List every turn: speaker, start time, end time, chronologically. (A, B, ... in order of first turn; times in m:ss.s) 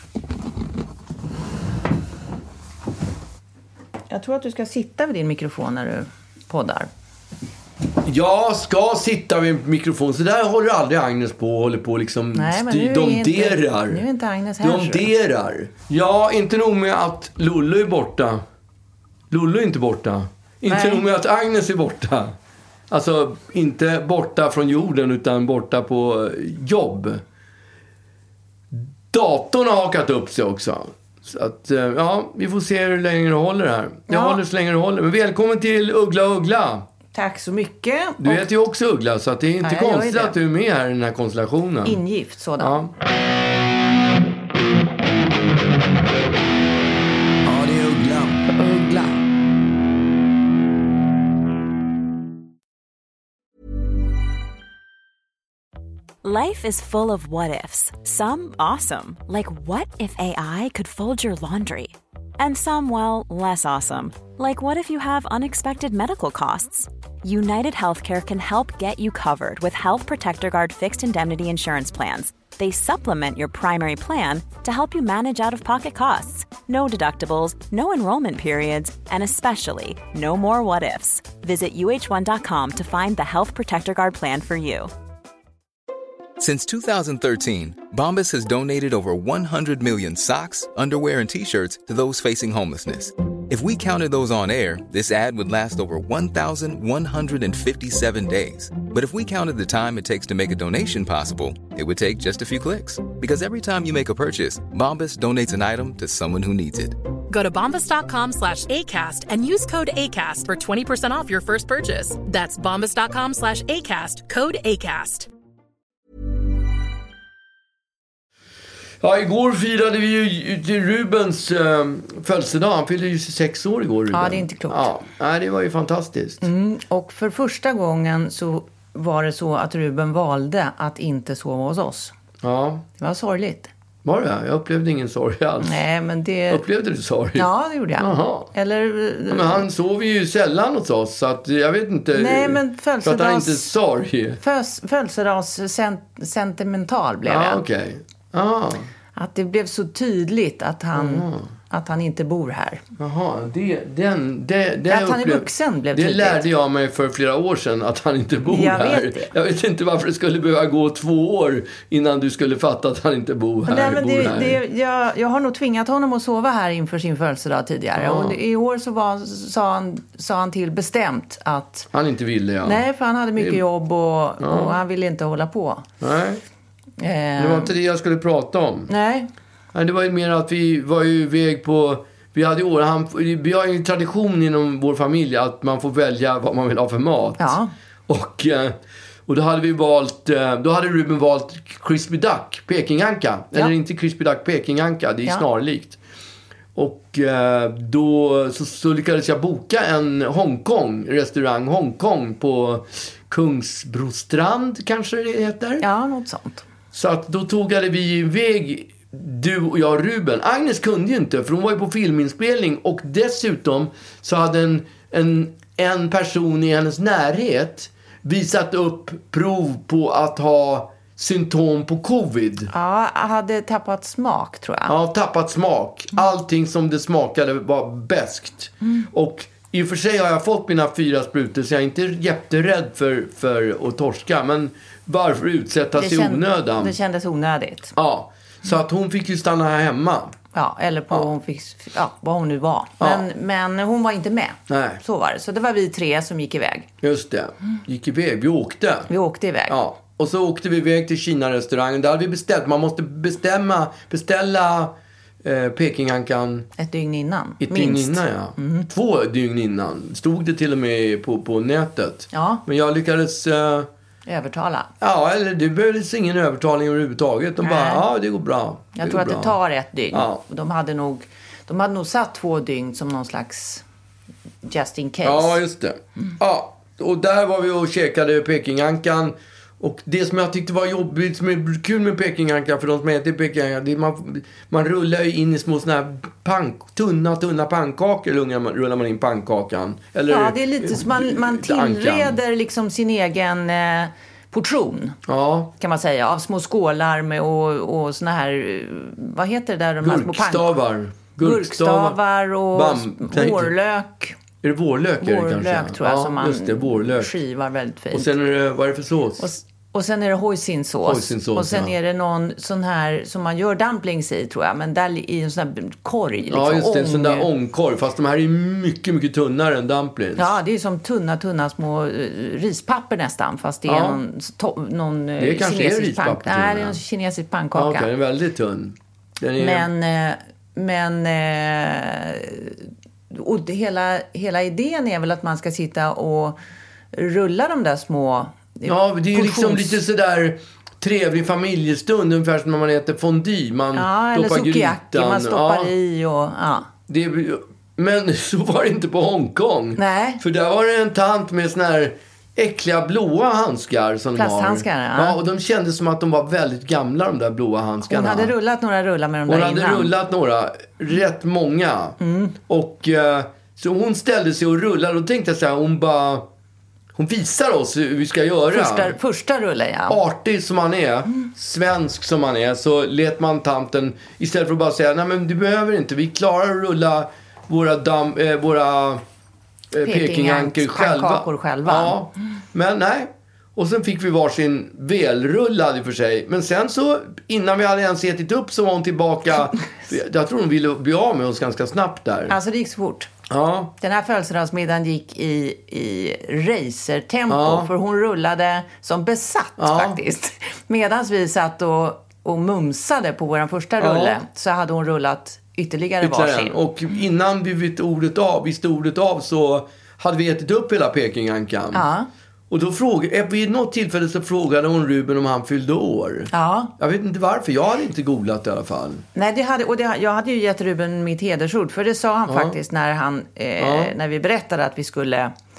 0:04.1-0:06.9 A
0:08.0-0:14.0 B
0:12.3-0:15.1 A
0:14.6-0:18.4 B
0:19.3-0:22.4 B
0:20.7-0:21.0 A
0:22.9-0:27.2 B
0:28.7-0:36.9 B
0:34.1-0:34.4 A
0:37.1-0:38.5 A
0:38.2-0:42.0 B
0:39.6-0:40.4 A
0:41.8-0:42.8 A
0:42.6-0:42.9 B
0:47.4-0:49.2 B
0:56.2-1:24.9 C
1:26.4-1:47.0 D
1:47.3-1:55.3 E
1:59.0-2:06.4 B
2:04.1-2:04.9 A
2:06.4-2:12.1 A
2:12.4-2:12.8 B
2:13.0-2:13.7 A
2:14.0-2:15.8 B
2:15.6-2:16.6 A
2:16.5-2:18.5 B
2:17.4-2:19.7 A
2:19.3-2:24.4 B
2:22.1-2:23.7 A
2:24.4-2:27.6 A
2:27.3-2:28.9 B
2:29.2-2:32.8 A
2:30.9-2:31.5 B
2:33.0-2:44.6 B
2:34.9-2:36.5 A
2:38.5-2:39.3 A
2:43.7-2:51.9 A
2:48.0-2:48.4 B
2:51.9-2:52.8 B
2:52.6-2:55.9 A
2:54.4-2:54.8 B
2:56.0-2:56.4 B
2:57.0-2:57.8 A
2:57.4-2:58.9 B
2:58.9-2:59.3 A
2:59.7-3:07.6 B
3:07.4-3:07.7 A
3:08.1-3:08.8 B
3:09.3-3:16.0 B
3:16.8-3:25.8 B
3:25.8-3:26.6 A
3:26.9-3:42.7 B
3:42.7-3:45.0 A
3:44.9-3:56.9 B
3:56.0-3:58.0 A
3:58.0-4:00.4 B
4:00.5-4:06.9 A
4:03.0-4:03.2 B
4:04.7-4:05.0 B
4:07.0-4:09.1 B
4:09.1-4:09.8 A
4:09.7-4:16.7 B
4:16.8-4:18.9 A
4:17.6-4:23.9 B
4:22.3-4:22.6 A
4:24.3-4:24.9 A
4:25.0-4:29.6 B
4:27.6-4:28.0 A
4:29.0-4:33.8 A
4:30.1-4:30.4 B
4:34.6-4:35.6 A
4:35.2-4:52.4 B
4:50.3-4:55.2 A
4:55.3-4:55.7 B
4:55.8-5:00.7 A
5:00.0-5:02.2 B
5:01.4-5:04.4 A
5:02.7-5:03.7 B
5:04.6-5:07.3 B
5:05.2-5:08.3 A
5:08.1-5:09.4 B
5:09.4-5:17.5 A
5:11.1-5:11.9 B
5:16.5-5:20.5 B
5:20.4-5:28.1 A
5:23.9-5:24.2 B
5:25.4-5:27.0 B
5:27.7-5:29.9 B
5:29.6-5:36.6 A
5:37.1-5:40.0 A
5:38.9-5:45.9 B
5:43.9-5:46.9 A
5:47.1-5:58.5 B
5:50.0-5:50.4 A
5:54.4-5:55.4 A
5:58.1-6:00.1 A
5:59.5-6:06.4 B
6:02.2-6:02.6 A
6:07.2-6:09.2 B
6:08.7-6:10.2 A
6:10.1-6:19.2 B
6:19.9-6:32.6 B
6:20.0-6:22.2 A
6:32.5-6:33.3 A
6:33.5-6:33.9 B
6:34.0-6:46.8 A
6:37.5-6:37.9 B
6:39.8-6:40.2 B
6:44.0-6:44.4 B
6:46.2-6:52.1 B
6:51.9-6:52.3 A
6:52.7-6:59.2 B
6:56.5-6:56.9 A
6:59.4-7:05.5 A
7:02.5-7:02.8 B
7:03.8-7:04.1 B